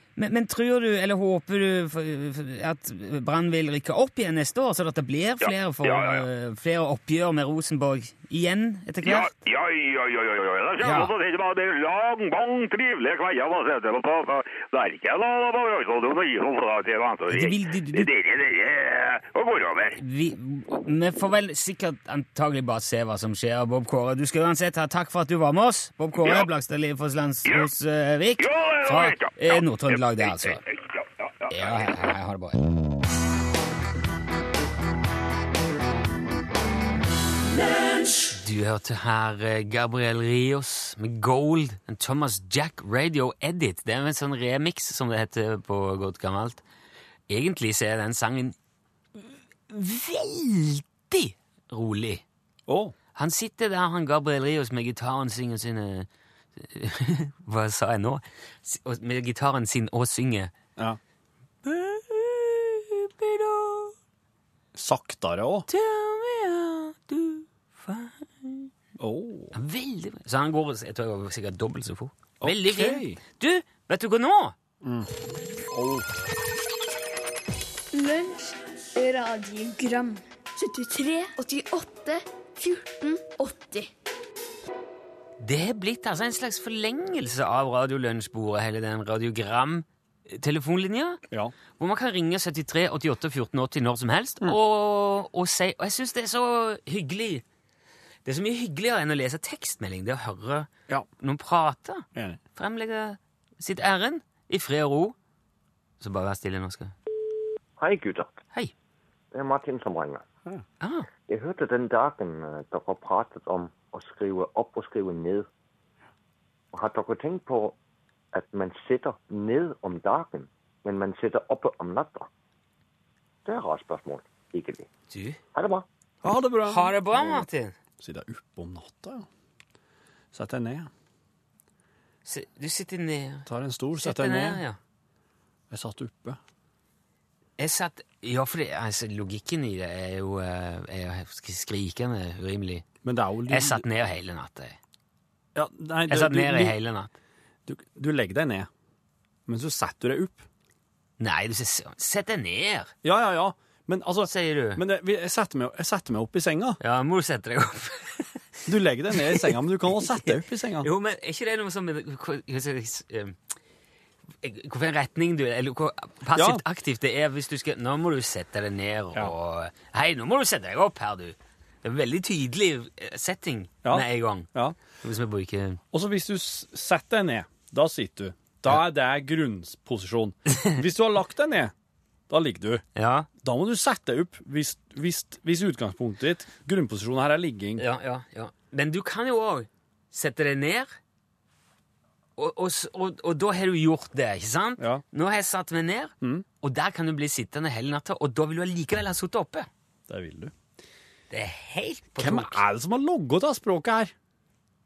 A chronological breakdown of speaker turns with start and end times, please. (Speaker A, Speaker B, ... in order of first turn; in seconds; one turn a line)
Speaker A: 0.2-9.3
Speaker B: 5.5-6.2
Speaker B: 9.0-20.0
Speaker A: 10.8-11.1
Speaker A: 17.3-18.1
Speaker A: 20.0-30.6
Speaker B: 28.4-29.6
Speaker B: 30.2-30.8
Speaker B: 31.5-31.9
Speaker A: 31.5-32.6
Speaker A: 38.3-46.6
Speaker A: 47.3-48.6
Speaker A: 49.1-52.2
Speaker C: 52.7-53.0
Speaker A: 53.1-60.5
Speaker A: 61.6-64.0
Speaker C: 64.7-65.7
Speaker A: 65.7-68.7
Speaker C: 69.0-69.5
Speaker A: 69.5-74.5
Speaker C: 72.4-73.2
Speaker C: 74.8-75.1
Speaker C: 75.7-76.1
Speaker D: 77.9-83.9
Speaker A: 85.4-91.2
Speaker A: 91.8-97.4
Speaker A: 98.2-105.2
Speaker A: 106.0-106.9
Speaker E: 107.8-108.3
Speaker E: 109.3-110.2
Speaker A: 110.8-111.1
Speaker E: 111.3-115.5
Speaker E: 116.7-117.8
Speaker E: 118.3-122.3
Speaker E: 123.5-124.9
Speaker A: 125.1-125.4
Speaker E: 125.5-125.9
Speaker C: 126.2-127.5
Speaker A: 126.7-127.8
Speaker C: 128.0-129.3
Speaker C: 130.3-130.9
Speaker A: 132.2-133.5
Speaker C: 133.5-134.6
Speaker A: 134.0-134.8
Speaker C: 135.7-136.4
Speaker A: 137.6-142.9
Speaker C: 143.0-143.8
Speaker A: 143.5-144.8
Speaker C: 145.6-146.8
Speaker A: 146.1-147.1
Speaker C: 147.7-148.7
Speaker C: 149.5-150.5
Speaker A: 151.2-152.9
Speaker C: 153.0-156.8
Speaker A: 154.2-154.8
Speaker A: 156.8-158.4
Speaker C: 158.7-160.9
Speaker A: 159.2-159.5
Speaker A: 160.8-163.4
Speaker A: 164.4-175.8
Speaker C: 166.3-166.6
Speaker C: 173.8-174.8
Speaker C: 175.9-181.7
Speaker C: 182.3-182.8
Speaker A: 182.9-183.3
Speaker C: 183.4-187.8
Speaker A: 187.8-190.9
Speaker A: 192.4-199.7
Speaker C: 200.1-200.5
Speaker A: 201.3-202.6
Speaker C: 202.2-204.1